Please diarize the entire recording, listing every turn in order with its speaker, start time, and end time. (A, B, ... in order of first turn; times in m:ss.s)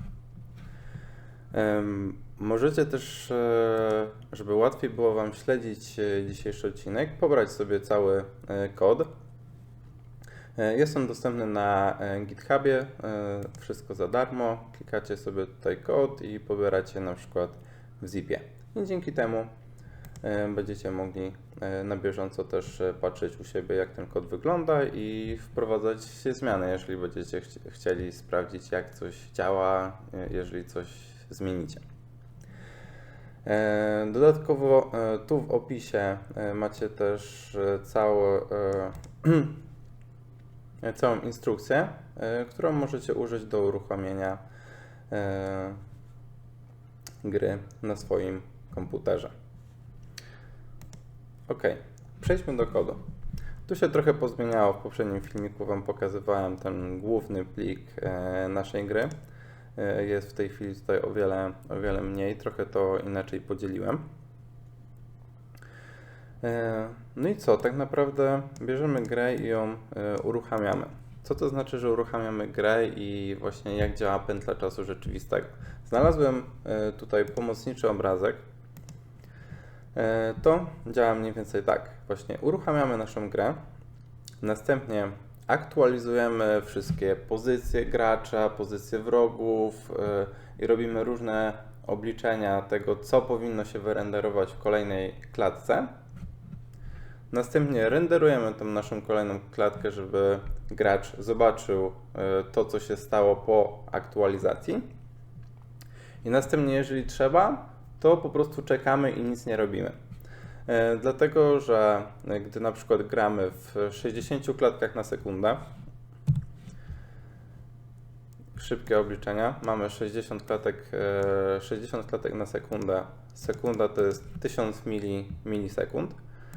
0:01.5-0:09.1 A
0:10.6-0:19.5 A
0:20.2-0:31.8 A
0:33.4-0:39.6 A
0:40.8-0:44.4 A
0:45.1-0:45.8 A
0:47.2-0:49.3 A
0:51.5-0:53.0 A
0:53.7-0:59.1 A
0:59.8-1:04.0 A
1:06.4-1:18.4 A
1:20.0-1:23.6 A
1:24.4-1:35.9 A
1:37.3-1:44.9 A
1:46.2-1:50.0 A
1:50.7-1:55.6 A
1:58.6-2:06.2 A